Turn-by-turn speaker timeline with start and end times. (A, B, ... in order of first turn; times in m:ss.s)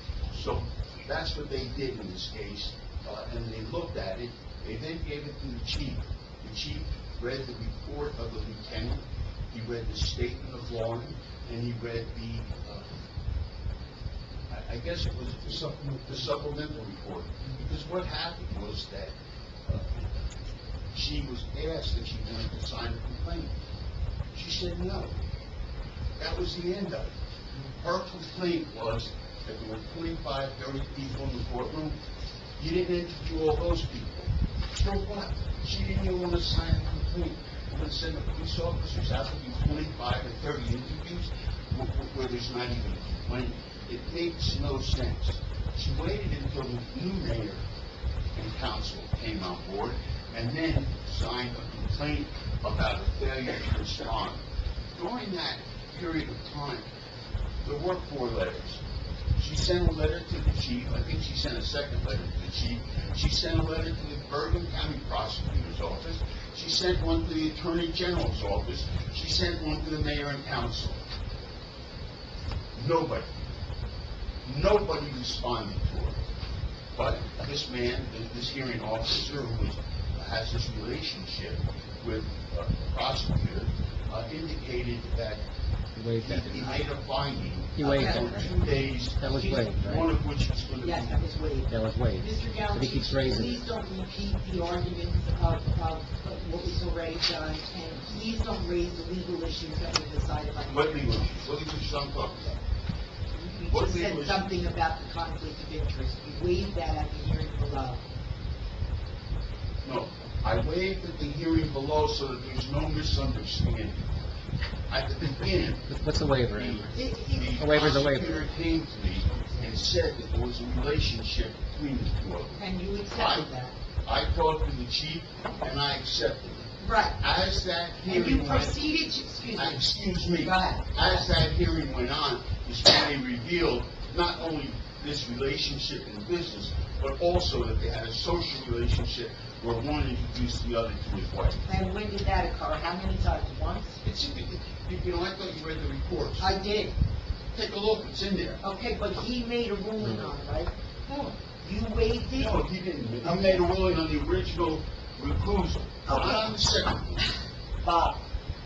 0:00.3-0:12.9 A
0:14.5-0:19.2 A
0:19.7-0:20.2 A
0:20.9-0:23.5 A
0:24.3-0:25.2 A
0:26.2-0:27.2 A
0:27.7-0:32.0 A
0:32.6-0:47.7 A
0:48.4-0:54.4 A
0:55.0-0:56.9 A
0:57.6-0:58.8 A
0:59.4-1:11.0 A
1:12.8-1:13.3 A
1:14.4-1:16.2 A
1:17.0-1:25.4 A
1:26.0-1:26.8 B
1:26.2-1:31.2 A
1:27.8-1:28.4 B
1:27.8-1:29.7 C
1:29.2-1:30.1 B
1:30.8-1:41.3 C
1:31.7-1:33.6 B
1:40.7-1:42.6 A
1:43.4-1:48.0 C
1:43.7-1:44.7 A
1:49.8-1:54.1 A
1:54.9-2:03.5 A
1:55.9-1:58.4 B
1:57.0-1:57.8 C
1:59.4-1:59.7 C
2:02.6-2:03.8 C
2:04.0-2:08.8 A
2:06.8-2:07.2 C
2:08.1-2:09.8 C
2:09.6-2:21.6 A
2:10.4-2:11.3 C
2:21.7-2:24.0 C
2:24.0-2:26.5 A
2:26.4-2:26.9 C
2:27.5-2:28.6 A
2:28.6-2:32.6 C
2:30.0-2:30.3 B
2:32.3-2:37.3 A
2:33.2-2:33.6 C
2:36.1-2:36.6 C
2:37.8-2:38.2 C